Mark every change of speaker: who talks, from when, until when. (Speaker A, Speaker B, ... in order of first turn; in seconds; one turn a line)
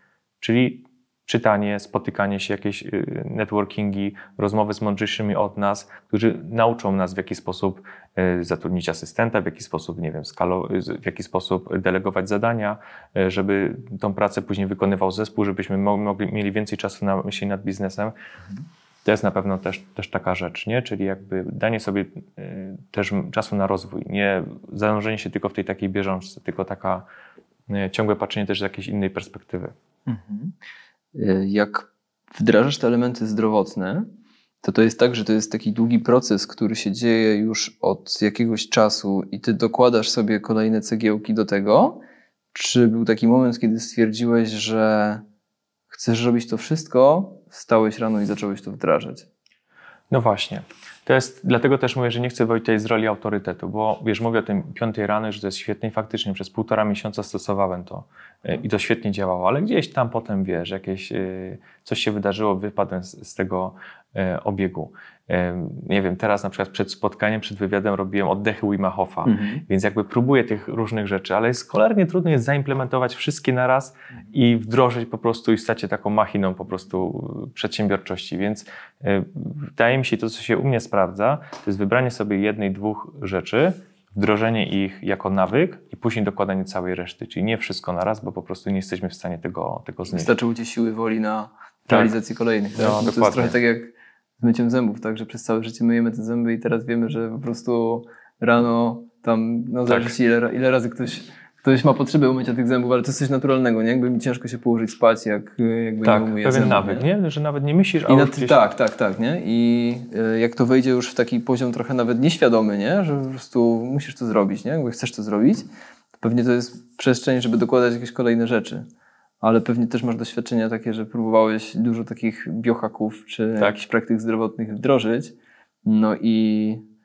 Speaker A: 0.4-18.1
Speaker A: 19.0-27.1
Speaker A: 27.7-29.7
Speaker B: 30.1-30.5
Speaker B: 31.1-34.0
Speaker B: 34.6-42.0
Speaker B: 42.5-45.2
Speaker B: 45.9-49.2
Speaker A: 50.1-90.3
Speaker B: 69.2-69.6
Speaker B: 90.1-107.1
Speaker A: 92.7-93.6
Speaker A: 99.9-100.1
Speaker A: 106.0-108.7
Speaker B: 108.1-115.7
Speaker B: 116.2-118.9
Speaker B: 119.4-126.8